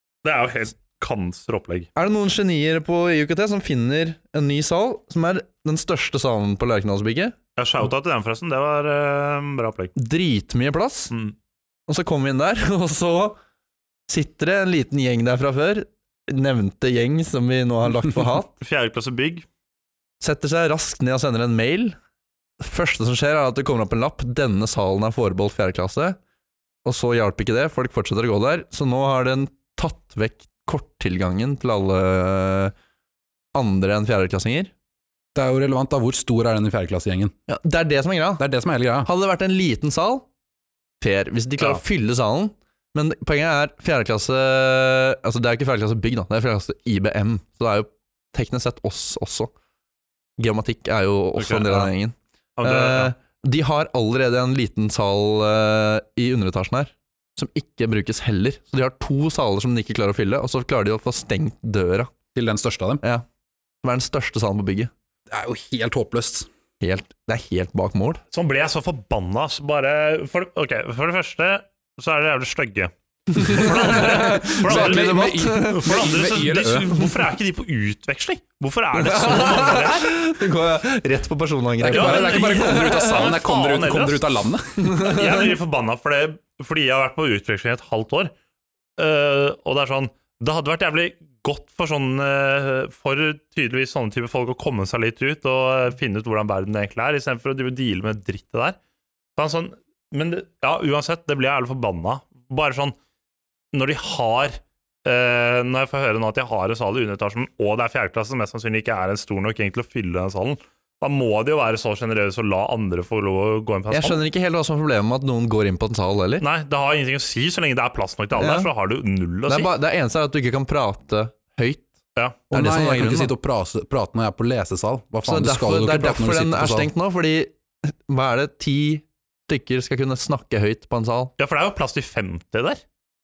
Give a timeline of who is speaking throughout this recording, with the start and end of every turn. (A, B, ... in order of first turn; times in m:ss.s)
0:00.2-0:01.9 A
0:02.0-0:07.4 B
0:07.6-0:09.9 A
0:10.0-0:11.1 B
0:11.1-0:11.4 A
0:11.9-0:13.4 B
0:14.1-0:18.5 B
0:18.6-0:19.5 A
0:20.2-0:22.0 B
0:22.6-0:26.2 B
0:26.8-0:32.7 B
0:33.6-0:34.7 B
0:35.4-0:37.3 C
0:37.5-0:38.4 B
0:38.4-0:39.1 C
0:39.0-0:40.2 B
0:41.0-0:49.5 B
0:50.4-1:02.1 B
0:51.4-0:51.9 A
0:52.6-0:53.1 A
1:02.4-1:03.0 C
1:03.8-1:04.9 B
1:05.3-1:06.5 C
1:06.8-1:08.2 B
1:08.3-1:20.2 A
1:13.3-1:16.2 B
1:14.3-1:16.9 C
1:19.0-1:23.3 B
1:21.8-1:25.0 C
1:21.9-1:24.3 A
1:24.8-1:25.5 B
1:25.0-1:28.3 A
1:29.0-1:38.8 A
1:39.4-1:43.0 A
1:43.7-1:54.2 A
1:53.9-1:56.5 B
1:56.4-1:59.7 A
1:58.4-1:58.7 B
1:59.5-2:01.9 B
2:02.5-2:06.9 C
2:02.5-2:03.3 B
2:05.2-2:11.3 B
2:11.4-2:12.8 A